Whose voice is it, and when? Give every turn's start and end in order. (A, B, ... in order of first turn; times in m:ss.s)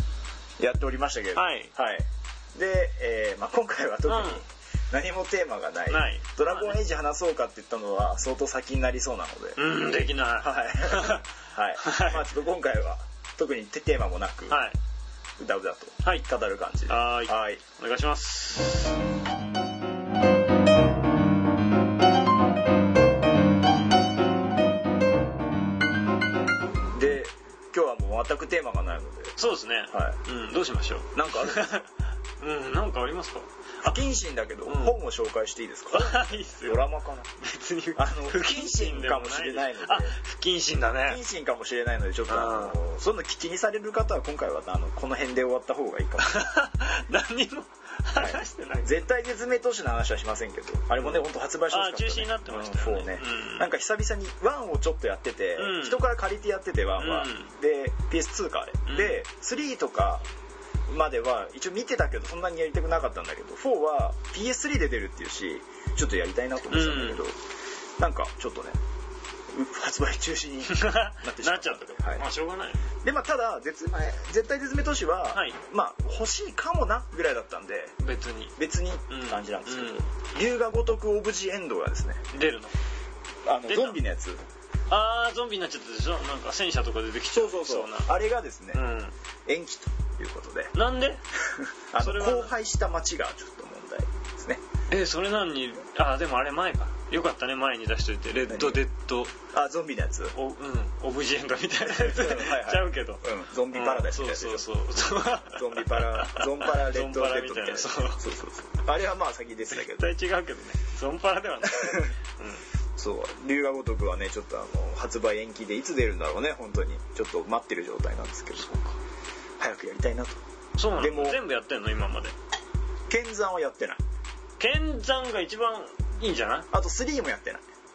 0:00.6-0:09.6 A
0:01.3-0:01.7 B
0:04.1-0:04.4 B
0:05.9-0:06.8 B
0:09.6-0:11.2 B
0:10.4-0:14.6 A
0:11.8-0:12.2 B
0:14.5-0:14.8 B
0:15.4-0:17.6 A
0:16.9-0:19.0 B
0:26.9-0:29.4 A
0:29.4-0:31.9 B
0:29.9-0:30.2 A
0:31.1-0:31.8 A
0:32.4-0:34.1 B
0:33.8-0:37.3 A
0:34.6-0:35.0 B
0:35.9-0:36.9 B
0:37.4-0:41.2 B
0:38.0-0:40.2 A
0:41.0-0:46.4 A
0:42.3-0:42.8 B
0:46.2-0:49.0 B
0:48.2-1:00.2 A
0:51.0-0:53.7 B
0:55.6-0:56.1 B
0:57.0-0:57.5 B
0:58.8-0:59.2 B
1:00.9-1:07.4 A
1:06.7-1:07.2 B
1:08.0-1:08.8 A
1:09.5-1:12.2 A
1:10.7-1:12.9 B
1:13.0-1:18.0 A
1:15.3-1:15.6 B
1:18.0-1:18.6 B
1:18.6-1:22.2 A
1:19.1-1:20.1 B
1:22.3-1:22.8 B
1:23.4-1:24.4 A
1:23.7-1:24.0 B
1:24.9-1:28.1 B
1:27.3-1:28.8 A
1:28.7-1:29.1 B
1:29.4-1:30.7 A
1:30.7-1:31.2 B
1:31.5-1:34.6 A
1:32.0-1:32.5 B
1:34.9-1:39.3 B
1:38.5-1:38.8 A
1:39.5-1:40.3 A
1:40.3-1:48.2 B
1:41.8-1:50.0 A
1:49.7-1:52.6 B
1:51.6-1:52.1 A
1:53.0-1:58.7 A
1:58.6-1:59.0 B
1:59.6-2:00.4 A
2:00.8-2:02.3 B
2:01.0-2:01.4 A
2:03.1-2:04.0 A
2:04.6-2:06.7 B
2:06.7-2:07.6 A